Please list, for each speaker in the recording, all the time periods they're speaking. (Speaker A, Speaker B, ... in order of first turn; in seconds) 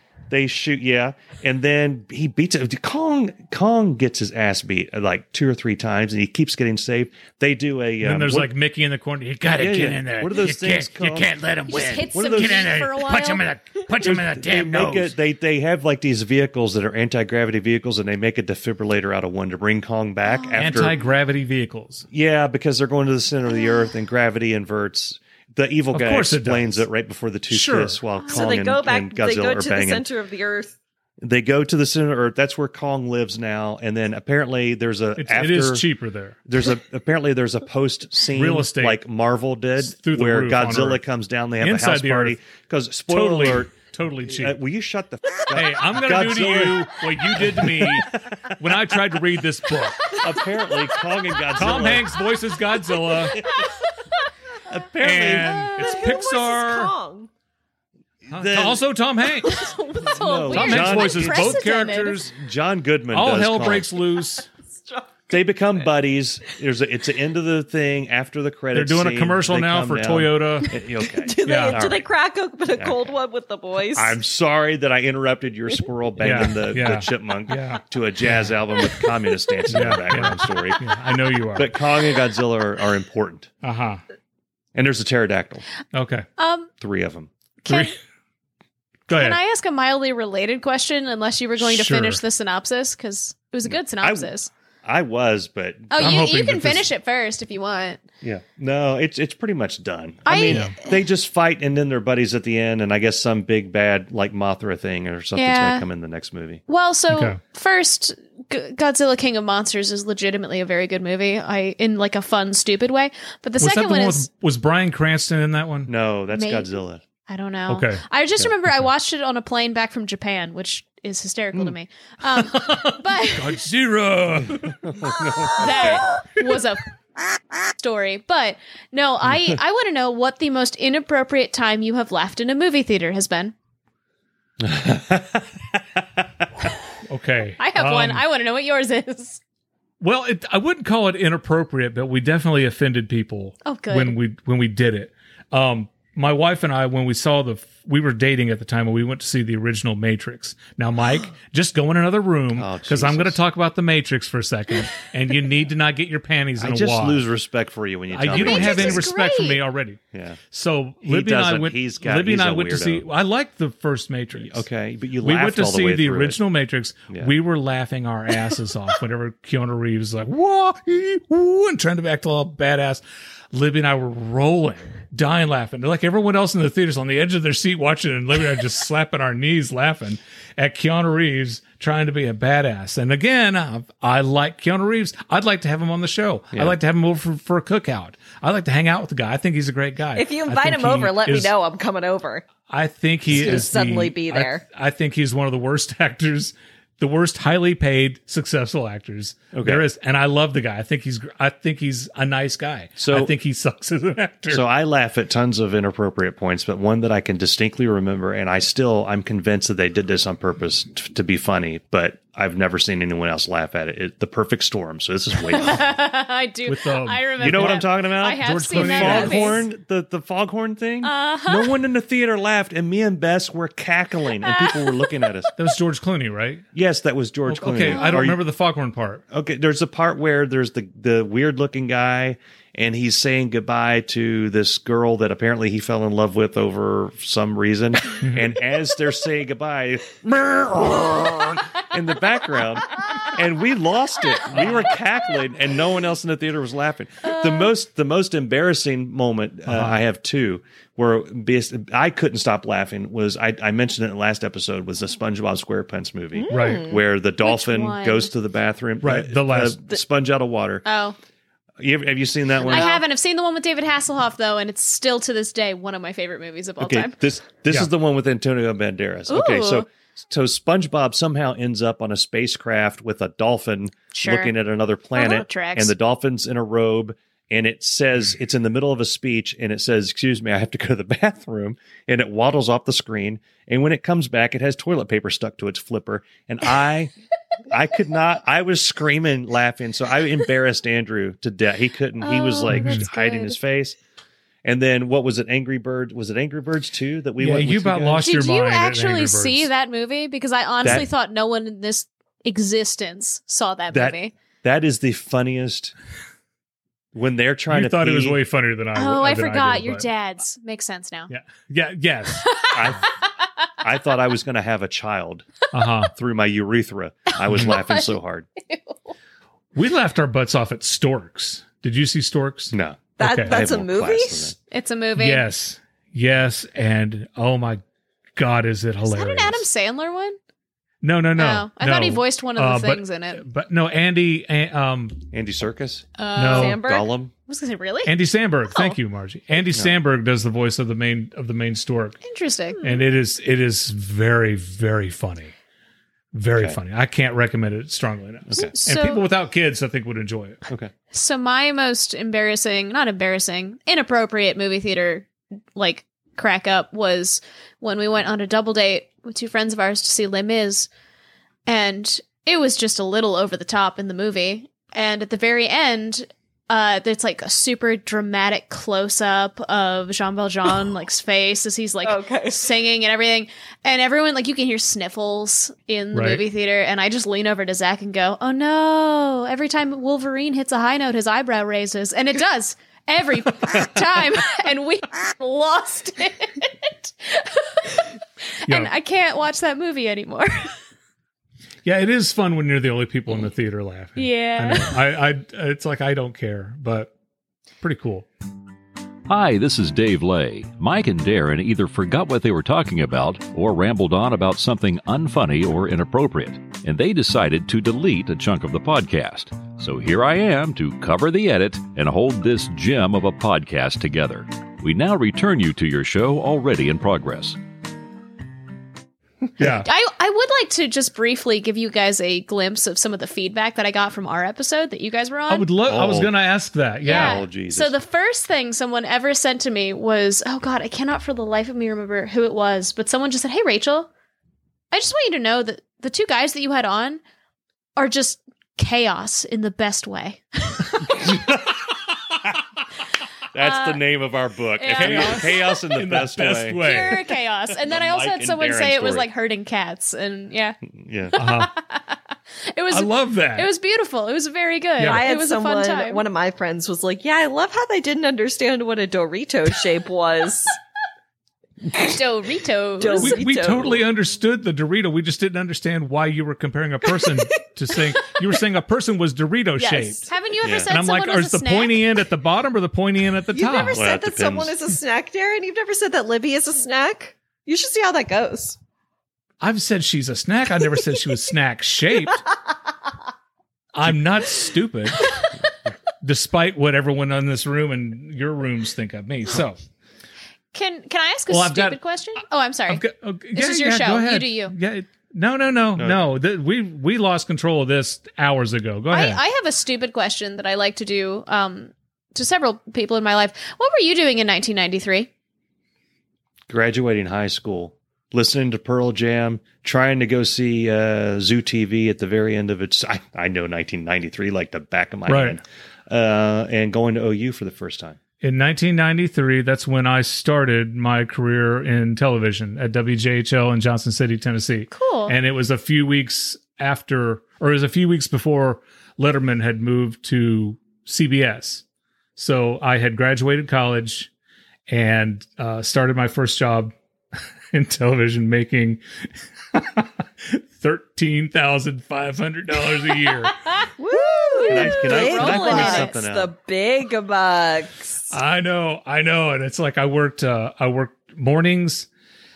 Speaker A: 0.3-8.5, 9.5-11.4, 12.0-12.8, 14.0-21.0, 22.1-30.1, 31.2-35.9, 36.5-48.9, 50.2-52.1, 54.6-56.0, 58.3-58.8, 60.1-63.9, 65.3-72.0, 72.8-73.1, 73.9-80.9, 81.5-83.5, 84.8-85.7, 86.8-87.3, 93.7-94.3, 94.8-96.2, 98.2-106.6, 115.9-117.0, 124.8-126.0, 134.6-136.2, 152.6-153.4, 156.6-159.1, 160.1-160.4, 161.0-163.1, 164.4-166.4, 199.5-199.8, 203.0-203.3, 204.5-215.9, 217.4-225.5, 226.7-228.4, 229.3-260.9, 261.8-262.9, 266.8-287.1, 287.7-294.0, 294.6-298.3, 300.8-301.1, 303.9-305.9, 307.1-308.4, 312.7-313.1, 313.8-315.5, 316.1-318.5, 322.7-324.6, 335.3-336.1, 336.7-337.3, 339.7-340.0, 348.5-348.7, 425.9-426.3, 427.0-427.9, 443.5-447.2, 447.8-449.3, 450.9-451.4, 470.6-470.9, 473.9-474.8, 496.0-496.2, 506.7-518.2, 544.6-546.5
Speaker B: 8.0-15.1, 20.6-22.1, 25.9-26.8, 27.5-28.0, 35.2-36.4, 38.3-39.0, 39.8-41.0, 41.6-42.4, 43.1-44.6, 45.5-50.2, 51.6-53.5, 55.0-56.9, 58.3-59.7, 60.5-62.3, 63.1-64.5, 68.7-70.8, 71.5-71.8, 76.2-78.5, 79.7-81.7, 83.6-84.0, 85.9-86.3, 87.7-87.9, 89.1-89.4, 91.6-92.2, 96.0-96.9, 107.1-107.4, 113.6-115.9, 117.7-118.0, 122.3-125.7, 137.1-138.2, 140.0-157.2, 158.1-160.0, 160.5-164.6, 165.2-191.5, 192.7-204.6, 216.7-219.6, 225.6-226.7, 227.5-229.2, 238.2-238.5, 244.5-244.9, 249.7-250.0, 256.5-256.9, 259.0-259.8, 292.7-293.1, 297.4-299.7, 307.7-310.1, 311.3-312.7, 315.7-316.1, 317.5-317.8, 319.8-323.6, 325.2-327.8, 328.4-329.6, 331.0-335.2, 336.4-336.8, 338.1-342.2, 342.8-345.5, 346.3-350.7, 376.1-376.4, 391.8-397.1, 397.8-398.3, 419.6-419.9, 425.5-427.4, 444.9-447.2, 451.4-451.7, 452.9-453.7, 455.0-455.2, 463.1-470.3, 470.9-474.0, 479.6-482.4, 483.9-485.4, 486.2-489.8, 491.5-492.0, 492.9-499.4, 515.3-515.6, 518.4-531.8, 532.4-534.3, 534.9-537.0, 537.7-539.0, 539.7-543.7, 548.3-552.1
Speaker C: 11.7-13.5, 20.3-20.8, 28.2-28.5, 59.5-62.2, 86.4-86.7, 87.7-88.0, 89.1-94.5, 95.9-98.0, 100.2-100.9, 105.4-105.9, 106.7-114.3, 116.3-116.7, 117.3-123.6, 125.5-126.9, 127.8-133.5, 137.6-139.4, 143.7-144.2, 158.3-159.6, 215.5-219.7, 221.0-221.8, 224.4-225.3, 227.8-228.3, 247.2-247.7, 257.4-258.3, 260.9-261.2, 262.7-267.1, 269.3-269.9, 274.1-274.5, 275.1-275.9, 292.2-293.6, 298.2-304.3, 308.9-311.3, 312.4-313.1, 317.5-319.0, 324.7-325.5, 329.0-330.4, 331.4-333.4, 336.2-336.8, 337.5-338.1, 342.2-343.0, 348.6-349.3, 351.1-360.9, 361.7-387.9, 388.6-390.8, 394.2-395.0, 419.8-425.7, 427.0-434.1, 434.9-437.2, 438.0-441.4, 443.6-444.0, 444.8-445.7, 446.8-452.2, 452.7-456.2, 461.9-463.4, 469.8-472.2, 490.7-493.0, 493.5-494.8, 499.1-505.3, 524.9-525.4, 544.3-546.2
Speaker D: 28.3-30.7, 55.3-57.3, 59.5-59.8, 64.7-65.9, 71.0-74.2, 190.2-192.5, 193.3-194.6, 256.4-257.0, 262.7-263.0, 323.2-324.5, 336.5-337.1, 372.0-372.6, 455.1-460.8, 463.0-464.1, 467.1-467.4, 473.5-478.8, 544.0-548.3
Speaker E: 399.3-417.6